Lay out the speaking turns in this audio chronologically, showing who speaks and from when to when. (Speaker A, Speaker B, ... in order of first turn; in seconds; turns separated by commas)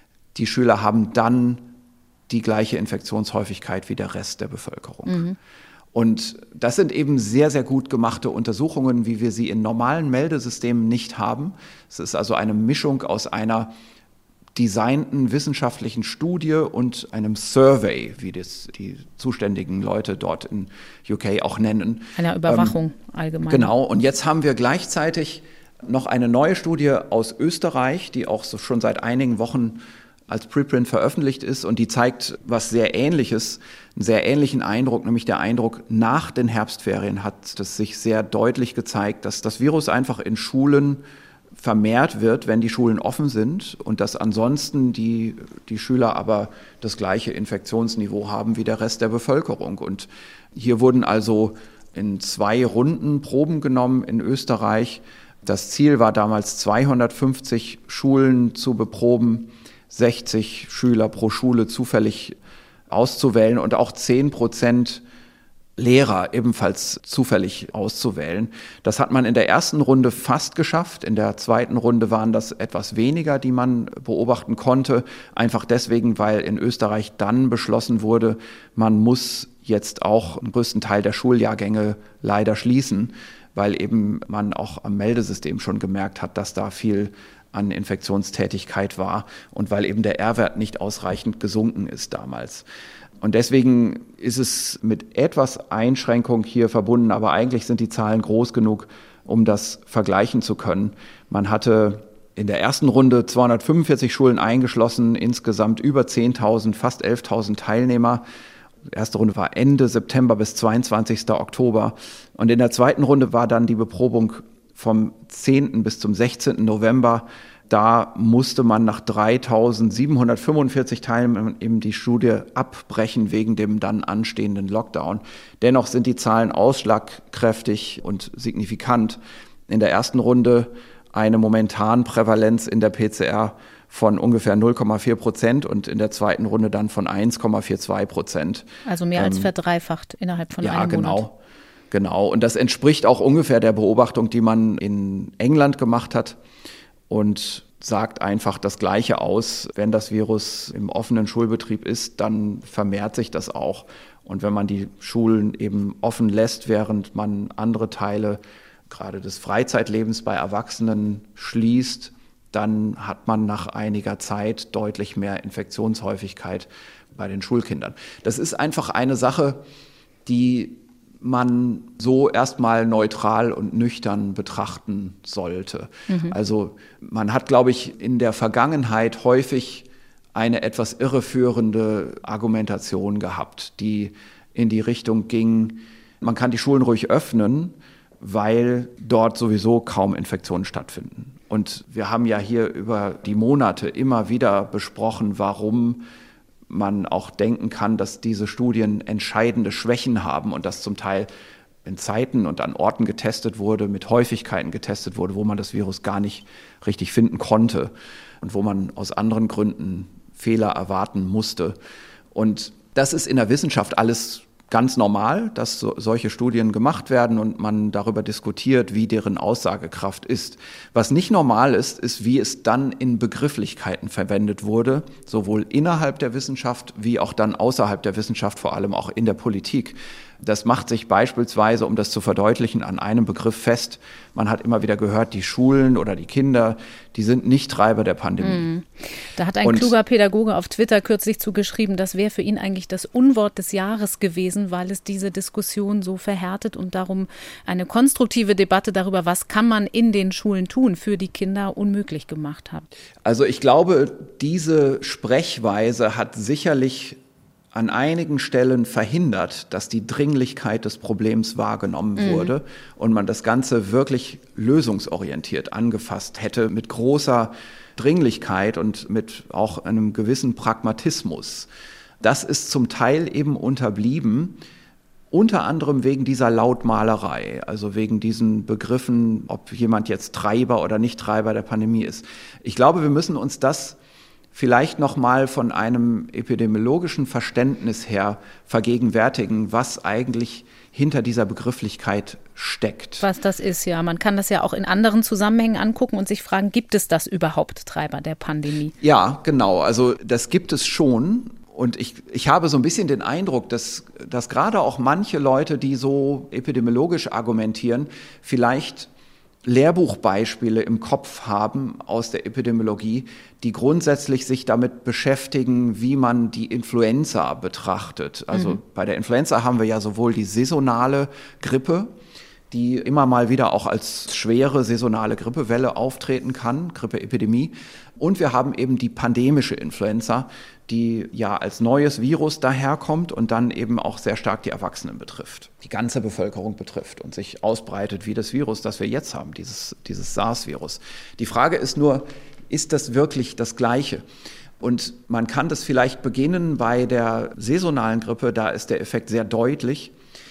Speaker A: 0.3-1.7, Speaker A: 2.3-5.2, Speaker B: 5.1-5.4, Speaker A: 5.9-13.7, Speaker A: 14.6-22.8, Speaker B: 22.2-23.7, Speaker A: 23.5-41.0, Speaker A: 41.6-62.4, Speaker A: 62.9-65.0, Speaker A: 65.8-92.7, Speaker A: 93.2-108.2, Speaker A: 108.9-139.5, Speaker B: 138.8-141.2, Speaker A: 140.6-141.4, Speaker A: 141.9-146.4, Speaker A: 147.1-169.6, Speaker A: 170.3-196.0, Speaker B: 176.1-176.4, Speaker A: 196.7-201.3, Speaker A: 201.8-207.9, Speaker A: 208.4-211.8, Speaker A: 212.3-238.7, Speaker B: 238.4-252.9, Speaker A: 239.6-239.9, Speaker A: 253.2-257.2, Speaker A: 257.7-271.7, Speaker B: 262.2-262.5, Speaker A: 272.2-274.6, Speaker A: 275.3-284.0, Speaker A: 284.5-293.2, Speaker B: 293.2-298.9, Speaker A: 299.0-309.1, Speaker A: 309.6-322.1, Speaker A: 322.7-344.2, Speaker A: 344.8-350.1